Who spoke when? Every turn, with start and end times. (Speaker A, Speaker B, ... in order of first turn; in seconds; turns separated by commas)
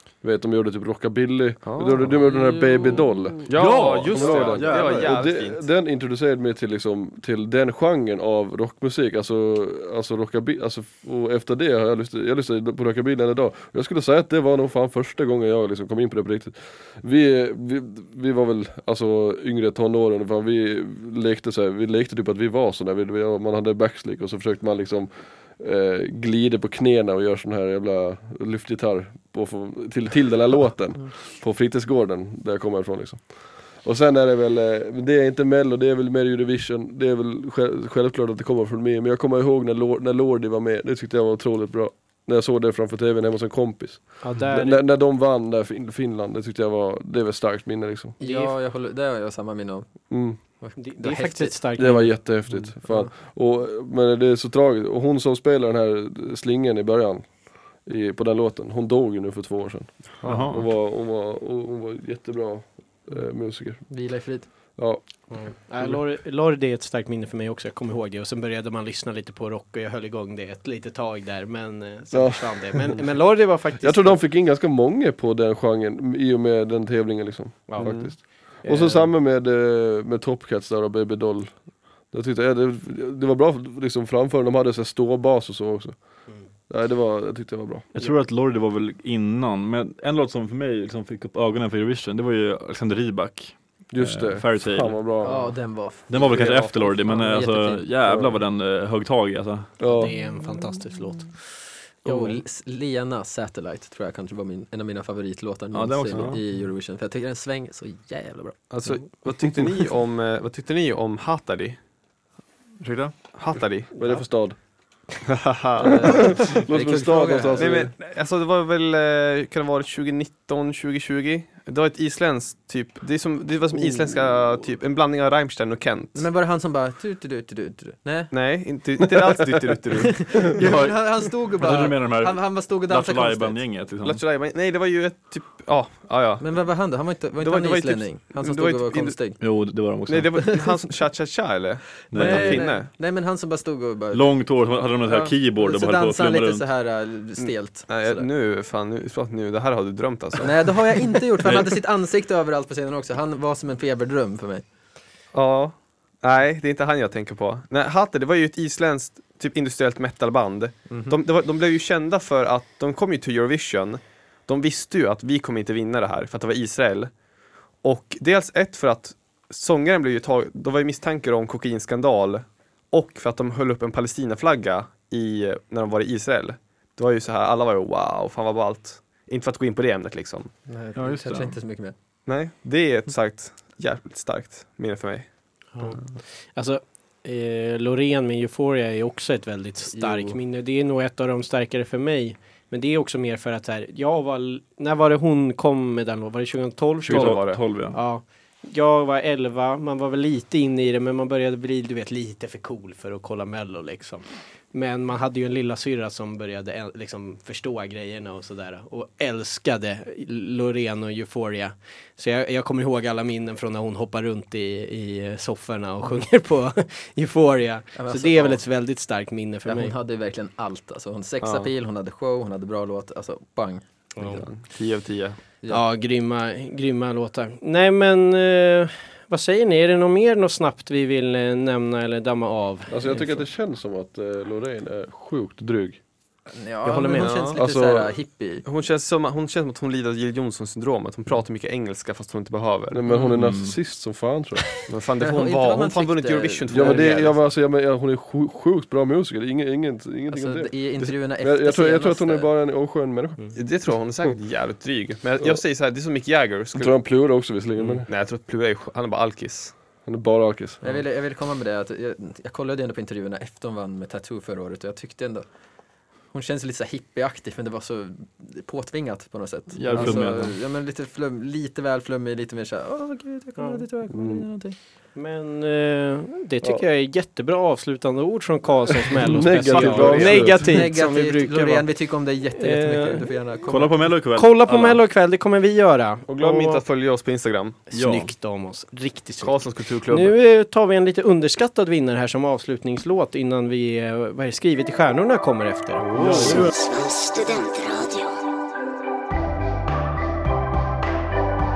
Speaker A: 0.2-3.5, Speaker B: 1.6-2.4, Speaker B: 3.5-5.6, Speaker C: 3.5-5.2, Speaker A: 4.1-48.1, Speaker D: 44.2-44.8, Speaker E: 48.2-51.6, Speaker D: 48.2-48.5, Speaker A: 50.1-50.4, Speaker D: 50.8-52.2, Speaker A: 51.8-57.3, Speaker E: 52.8-53.1, Speaker A: 57.8-63.9, Speaker B: 60.2-60.4, Speaker C: 60.2-60.6, Speaker E: 63.9-64.5, Speaker D: 65.3-74.2, Speaker A: 72.1-73.0, Speaker A: 73.8-81.5, Speaker D: 77.7-79.1, Speaker B: 77.8-78.2, Speaker A: 82.1-85.9, Speaker A: 86.7-87.9, Speaker C: 87.9-95.0, Speaker A: 93.9-95.5, Speaker E: 95.2-98.0, Speaker C: 96.1-99.7, Speaker B: 96.1-97.2, Speaker A: 99.8-100.1, Speaker D: 99.9-101.5, Speaker D: 102.0-102.3, Speaker E: 102.0-108.6, Speaker C: 105.7-106.4, Speaker B: 106.1-106.4, Speaker B: 108.7-111.8, Speaker C: 112.8-113.2, Speaker B: 113.3-114.0, Speaker A: 114.0-114.6, Speaker B: 115.2-116.6, Speaker E: 115.8-117.9, Speaker A: 116.0-117.9, Speaker B: 117.6-126.2, Speaker E: 126.1-128.3, Speaker B: 128.3-130.7, Speaker E: 130.2-133.6, Speaker C: 130.6-134.2, Speaker B: 134.0-136.5, Speaker E: 136.4-139.4, Speaker B: 137.4-139.2, Speaker C: 139.4-140.6, Speaker B: 140.1-142.9, Speaker E: 140.4-140.9, Speaker E: 142.0-144.4, Speaker C: 142.1-142.8, Speaker C: 144.1-146.6, Speaker E: 145.0-148.2, Speaker B: 147.4-150.9, Speaker E: 150.4-154.6, Speaker B: 155.3-167.1, Speaker E: 160.9-161.2, Speaker B: 167.8-180.5, Speaker E: 180.7-181.9, Speaker C: 180.9-181.6, Speaker B: 182.2-185.3, Speaker D: 185.7-219.9, Speaker E: 189.9-190.4, Speaker B: 197.1-197.6, Speaker C: 197.1-198.0, Speaker E: 217.9-218.7, Speaker E: 219.7-224.4, Speaker B: 221.4-221.7, Speaker B: 224.3-225.4, Speaker D: 225.7-233.4, Speaker A: 232.9-236.0, Speaker E: 236.5-238.6, Speaker D: 236.8-237.4, Speaker B: 237.2-237.6, Speaker A: 237.6-238.1, Speaker B: 238.6-243.0, Speaker A: 242.9-244.8, Speaker C: 243.1-243.8, Speaker B: 244.8-247.3, Speaker E: 245.2-247.3, Speaker A: 246.7-253.5, Speaker E: 250.3-252.5, Speaker B: 253.5-256.9, Speaker A: 256.7-258.1, Speaker B: 257.8-259.7, Speaker A: 260.1-260.9, Speaker E: 260.8-265.4, Speaker E: 266.3-274.8, Speaker C: 269.7-270.6, Speaker A: 269.9-270.3, Speaker D: 273.6-273.8, Speaker A: 274.1-274.4, Speaker D: 275.1-281.9, Speaker A: 279.2-280.9, Speaker B: 279.7-280.6, Speaker C: 279.8-280.1, Speaker E: 280.6-284.1, Speaker D: 282.6-283.3, Speaker C: 283.7-285.0, Speaker D: 284.3-286.8, Speaker B: 286.3-287.9, Speaker D: 287.9-296.6, Speaker C: 287.9-288.3, Speaker B: 289.4-290.4, Speaker C: 296.1-296.7, Speaker F: 296.4-298.4